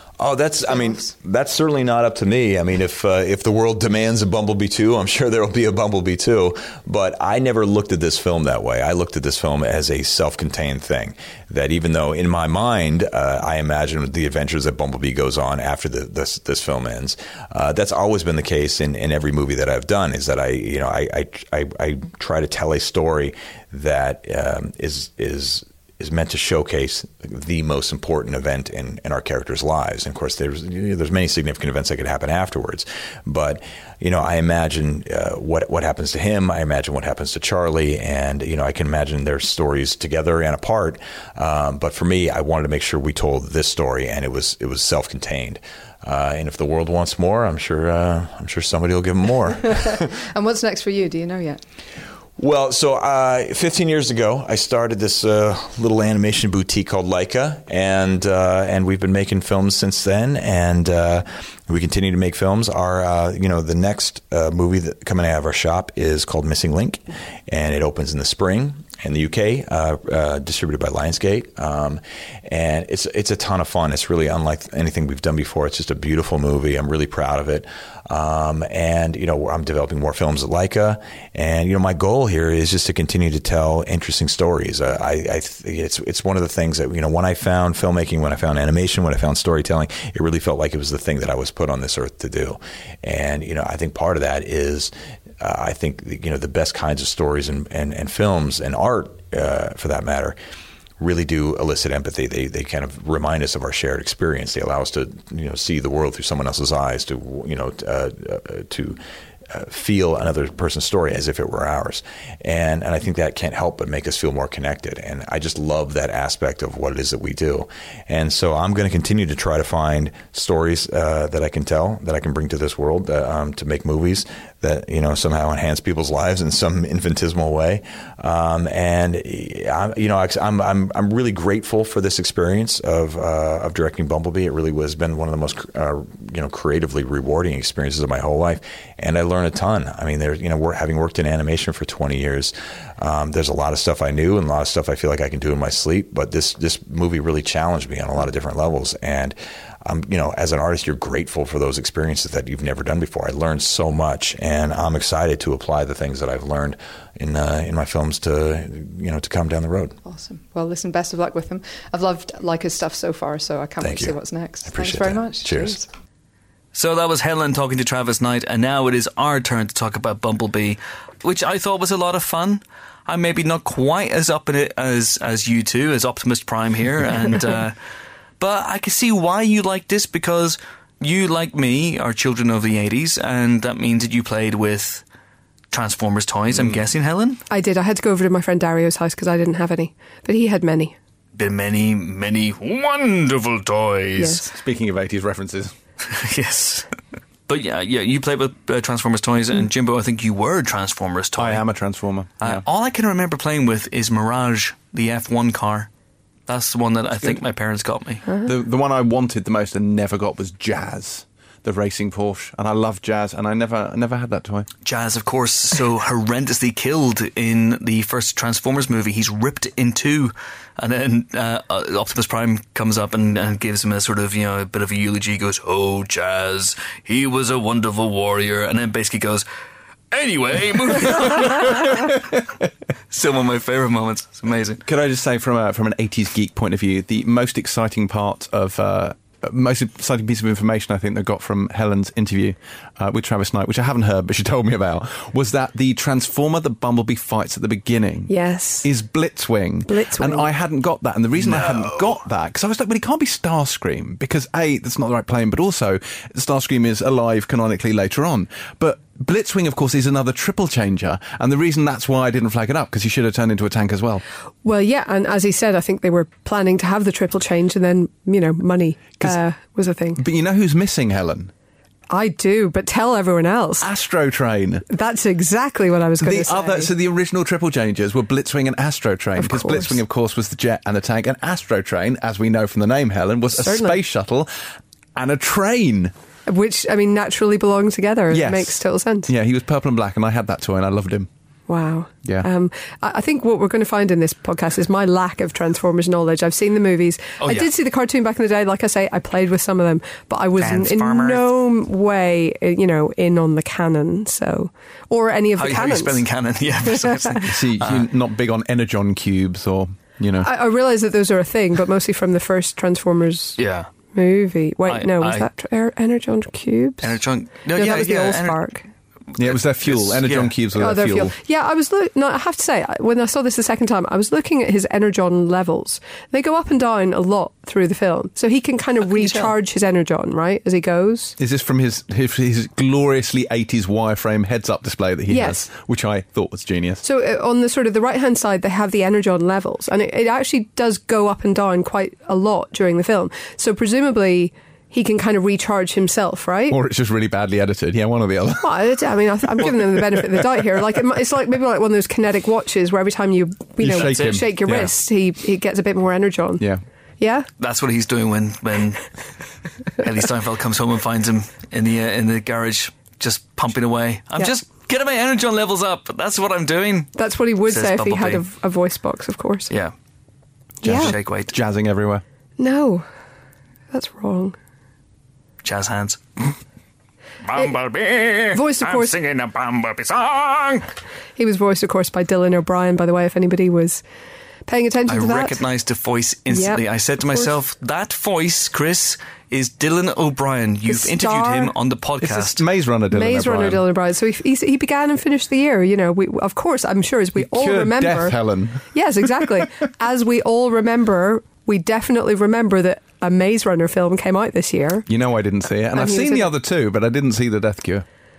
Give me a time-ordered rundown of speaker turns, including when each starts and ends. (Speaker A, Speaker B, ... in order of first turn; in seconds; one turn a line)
Speaker A: 0.2-50.1
Speaker B: 0.7-1.1
Speaker B: 49.6-51.6
Speaker A: 52.4-100.3
Speaker A: 101.0-109.0
Speaker A: 109.5-159.9
Speaker B: 160.0-165.9
Speaker A: 163.8-165.8
Speaker C: 166.7-177.8
Speaker C: 178.4-185.0
Speaker C: 185.7-187.4
Speaker D: 186.5-186.8
Speaker E: 187.5-190.9
Speaker C: 191.3-194.4
Speaker E: 194.2-194.5
Speaker D: 194.4-195.7
Speaker C: 196.1-196.9
Speaker C: 197.5-201.6
Speaker D: 201.4-202.6
Speaker C: 202.4-205.9
Speaker C: 206.5-208.2
Speaker D: 208.4-214.7
Speaker C: 214.8-229.4
Speaker C: 230.1-232.2
Speaker C: 233.1-234.8
Speaker D: 234.8-264.2
Speaker E: 248.3-248.9
Speaker E: 249.9-250.5
Speaker C: 251.3-252.2
Speaker E: 264.6-270.2
Speaker D: 270.1-271.5
Speaker E: 272.1-273.9
Speaker D: 273.8-274.8
Speaker E: 274.9-276.9
Speaker D: 276.2-284.5
Speaker E: 279.4-280.0
Speaker E: 283.5-284.0
Speaker D: 285.1-286.1
Speaker E: 286.5-289.3
Speaker D: 288.3-291.3
Speaker E: 291.7-306.2
Speaker C: 297.4-297.7
Speaker C: 300.6-301.5
Speaker C: 305.6-308.1
Speaker E: 306.9-307.4
Speaker D: 307.4-310.5
Speaker E: 310.4-313.6
Speaker C: 313.6-313.9
Speaker E: 314.1-317.2
Speaker C: 314.9-315.5
Speaker C: 317.0-318.6
Speaker E: 317.7-318.9
Speaker C: 319.4-320.5
Speaker D: 319.4-321.4
Speaker E: 320.8-331.3
Speaker C: 329.1-329.5
Speaker D: 331.4-337.0
Speaker E: 335.3-335.6
Speaker E: 337.0-346.8
Speaker D: 346.7-348.9
Speaker E: 348.6-356.6
Speaker D: 349.6-350.4
Speaker D: 353.8-354.9
Speaker C: 353.8-354.5
Speaker E: 357.2-357.5
Speaker C: 357.6-359.2
Speaker C: 359.9-367.1
Speaker E: 367.1-369.7
Speaker C: 367.6-368.4
Speaker E: 370.8-371.1
Speaker D: 370.8-372.2
Speaker C: 370.9-371.5
Speaker E: 372.6-373.1
Speaker E: 373.9-374.6
Speaker C: 375.6-376.4
Speaker C: 377.4-380.9
Speaker E: 378.5-379.1
Speaker E: 381.4-384.0
Speaker E: 384.7-385.6
Speaker C: 385.1-392.6
Speaker E: 386.5-387.5
Speaker E: 390.9-391.7
Speaker D: 392.2-393.8
Speaker E: 393.1-398.4
Speaker D: 397.4-399.7
Speaker E: 398.9-405.1
Speaker D: 405.1-408.0
Speaker E: 405.9-406.5